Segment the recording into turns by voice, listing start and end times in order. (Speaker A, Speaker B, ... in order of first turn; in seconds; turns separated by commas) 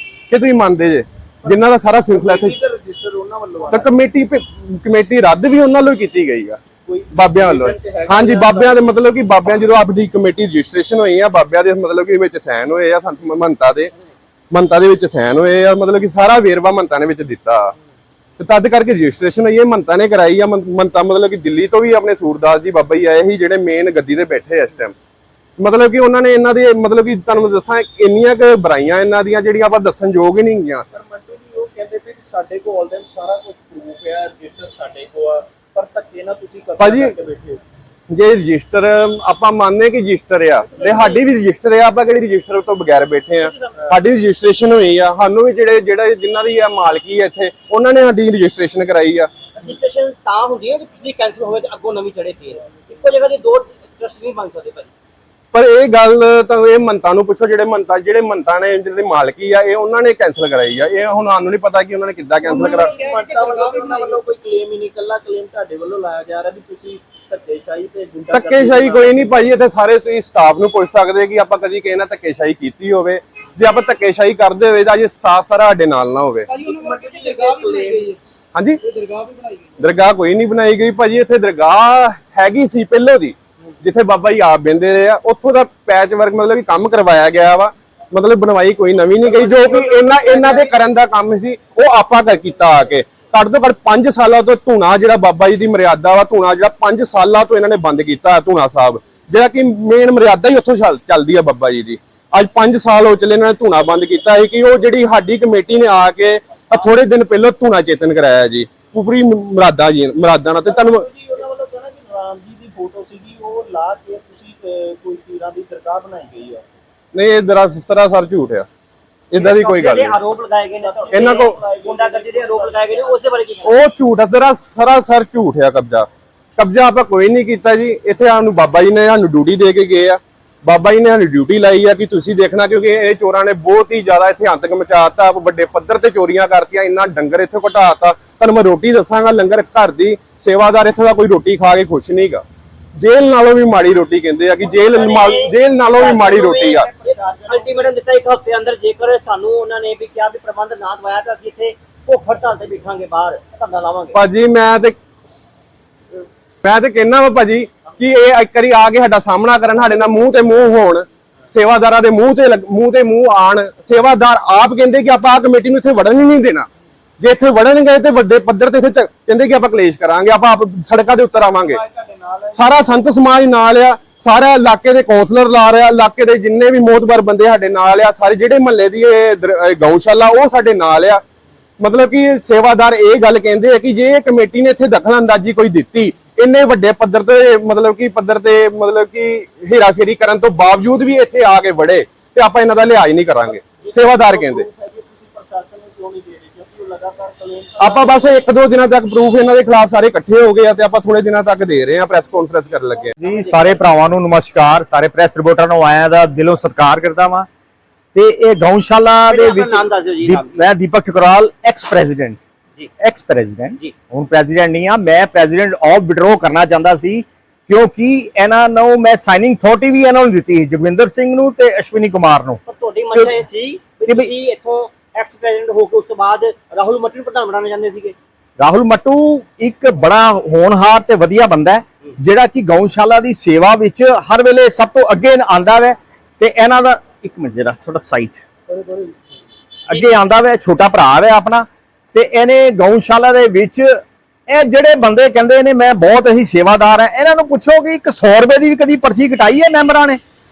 Speaker A: 0.3-2.6, Speaker B: 1.4-3.9, Speaker A: 3.7-6.6, Speaker B: 6.8-8.9, Speaker A: 7.1-13.9, Speaker A: 14.5-17.7, Speaker A: 18.4-24.9, Speaker A: 25.6-30.8, Speaker B: 30.9-37.6, Speaker A: 36.8-37.1, Speaker A: 38.1-49.3, Speaker B: 40.8-41.1, Speaker C: 43.3-43.8, Speaker C: 49.5-54.9, Speaker A: 55.5-62.9, Speaker D: 62.4-64.2, Speaker B: 62.5-69.4, Speaker A: 68.3-76.5, Speaker D: 76.5-78.2, Speaker B: 76.6-78.1, Speaker A: 78.5-78.8, Speaker D: 78.8-79.9, Speaker A: 79.8-111.1, Speaker B: 89.2-90.7, Speaker B: 110.6-116.8, Speaker A: 117.1-118.7, Speaker A: 119.3-120.2, Speaker C: 119.4-123.7, Speaker B: 120.8-123.2, Speaker A: 121.1-121.5, Speaker A: 123.6-142.4, Speaker A: 143.0-146.9, Speaker C: 144.8-154.2, Speaker B: 146.6-148.0, Speaker A: 154.1-154.9, Speaker A: 156.6-166.7, Speaker A: 167.2-171.8, Speaker B: 171.5-172.8, Speaker A: 172.6-181.2, Speaker A: 181.8-194.7, Speaker B: 193.8-198.1, Speaker A: 197.8-203.2, Speaker C: 203.2-204.0, Speaker E: 203.2-207.5, Speaker E: 208.1-212.4, Speaker C: 209.3-210.6, Speaker E: 213.0-222.6, Speaker C: 222.7-228.2, Speaker E: 228.6-238.4, Speaker B: 238.7-239.1, Speaker E: 239.9-250.2